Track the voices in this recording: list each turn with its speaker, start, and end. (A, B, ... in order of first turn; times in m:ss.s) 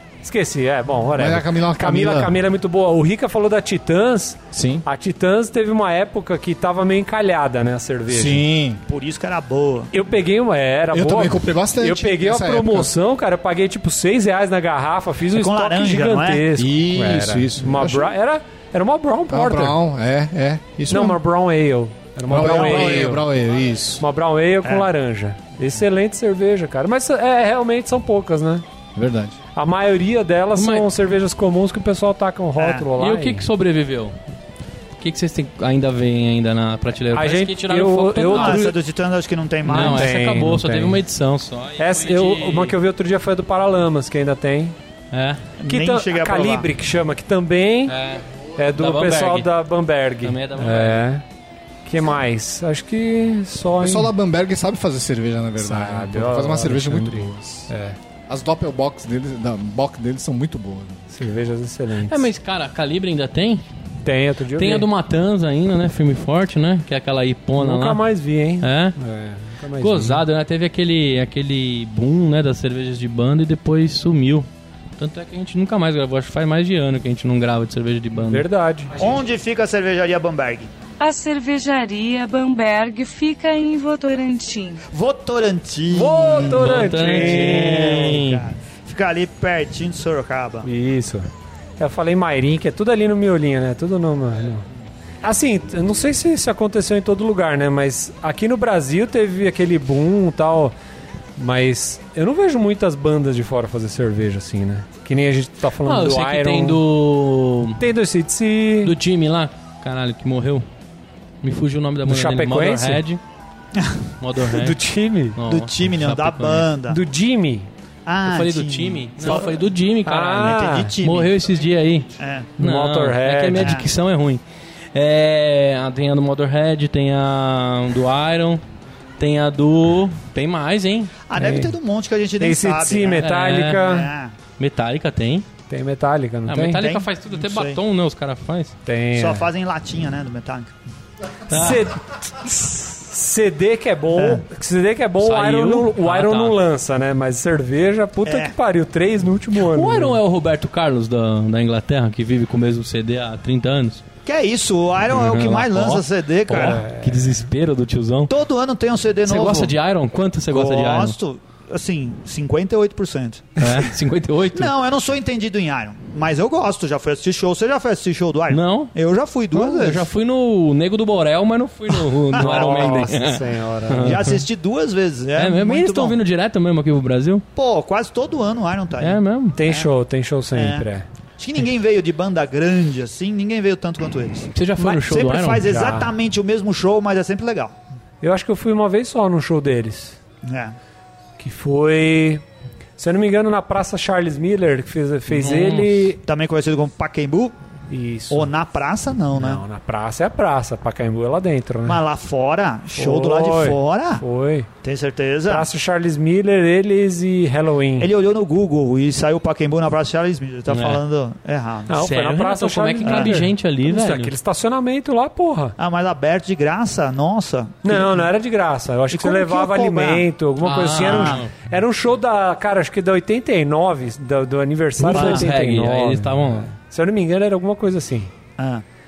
0:00.2-0:08.4 A
0:01.2-0:02.4 B
0:04.5-0:04.8 B
0:08.1-0:08.8 B
0:08.9-0:09.9 C
0:09.9-0:19.8 A
0:10.9-0:12.9 B
0:15.3-0:16.4 C
0:16.5-0:18.1 B
0:19.3-0:21.2 B
0:20.9-0:23.2 A
0:22.2-0:24.0 B
0:22.3-0:23.1 C
0:24.0-0:28.6 A
0:28.9-0:29.4 B
0:29.5-0:33.4 A
0:30.6-0:30.9 D
0:32.6-0:32.9 C
0:33.0-0:34.2 D
0:35.0-0:38.7 D
0:37.1-0:38.8 A
0:38.2-0:40.1 C
0:39.6-0:42.7 D
0:39.7-0:41.0 A
0:41.8-0:44.7 A
0:45.1-0:45.4 D
0:45.6-0:46.7 C
0:45.6-0:47.9 A
0:47.8-0:48.2 D
0:48.6-0:51.2 A
0:48.8-0:49.5 D
0:50.2-0:51.0 D
0:51.8-0:54.1 A
0:53.8-0:57.7 B
0:55.6-0:58.0 A
0:58.3-1:01.0 B
1:01.1-1:02.3 A
1:02.1-1:03.6 D
1:04.0-1:04.9 A
1:04.5-1:08.0 D
1:07.6-1:10.2 A
1:08.6-1:09.0 D
1:09.8-1:14.5 D
1:15.0-1:18.4 D
1:18.2-1:18.9 A
1:19.0-1:20.7 C
1:21.0-1:24.8 E
1:24.9-1:30.7 C
1:25.9-1:28.0 A
1:26.5-1:28.4 D
1:30.6-1:34.6 A
1:35.2-1:40.7 A
1:41.4-1:46.8 A
1:45.8-1:47.8 D
1:47.8-1:48.9 A
1:48.8-1:50.6 D
1:51.4-1:53.2 D
1:52.0-1:53.0 A
1:53.8-1:54.0 C
1:54.2-1:54.8 D
1:54.5-1:55.4 A
1:55.3-1:56.7 D
1:55.4-1:57.0 C
1:56.9-1:57.7 A
1:58.0-1:59.6 C
1:58.2-2:04.4 D
1:59.2-1:59.5 A
2:00.0-2:01.0 A
2:00.2-2:01.3 C
2:02.2-2:02.5 C
2:02.6-2:03.8 A
2:03.6-2:03.8 C
2:04.9-2:08.6 D
2:09.2-2:11.2 D
2:11.2-2:14.3 C
2:11.3-2:11.7 A
2:12.4-2:14.1 A
2:13.2-2:13.8 D
2:14.6-2:15.5 D
2:15.7-2:16.8 A
2:16.5-2:18.7 D
2:16.7-2:17.8 C
2:18.8-2:19.5 A
2:19.1-2:20.7 C
2:21.5-2:21.9 D
2:21.5-2:30.2 A
2:24.2-2:24.4 C
2:25.2-2:26.6 D
2:28.2-2:28.5 C
2:29.7-2:34.0 D
2:34.2-2:36.8 C
2:35.1-2:38.3 D
2:36.5-2:37.5 A
2:38.3-2:39.7 C
2:39.2-2:41.2 D
2:40.5-2:43.8 C
2:43.6-2:44.7 D
2:44.5-2:50.0 C
2:48.5-2:48.9 D
2:49.5-2:54.4 D
2:52.3-2:53.1 C
2:52.4-2:54.2 A
2:54.0-2:56.2 C
2:55.4-2:57.4 D
2:57.6-2:59.9 C
2:59.0-2:59.6 D
2:59.5-3:01.0 A
3:00.5-3:00.8 C
3:01.4-3:07.8 C
3:04.5-3:06.0 D
3:05.6-3:06.1 A
3:08.2-3:10.2 A
3:10.4-3:10.8 C
3:11.4-3:12.4 A
3:13.0-3:16.2 A
3:15.3-3:16.1 D
3:16.2-3:17.5 C
3:17.9-3:18.5 A
3:18.3-3:19.6 C
3:19.3-3:22.0 A
3:21.8-3:24.2 C
3:22.9-3:24.7 A
3:24.8-3:25.6 C
3:25.5-3:28.1 A
3:28.0-3:32.0 C
3:30.7-3:31.0 D
3:31.9-3:35.7 A
3:32.0-3:34.3 D
3:33.0-3:33.3 C
3:35.8-3:38.2 C
3:37.8-3:48.3 A
3:39.1-3:40.2 C
3:40.6-3:41.5 D
3:41.0-3:41.4 C
3:45.0-3:46.7 D
3:45.1-3:45.5 C
3:48.6-3:48.8 C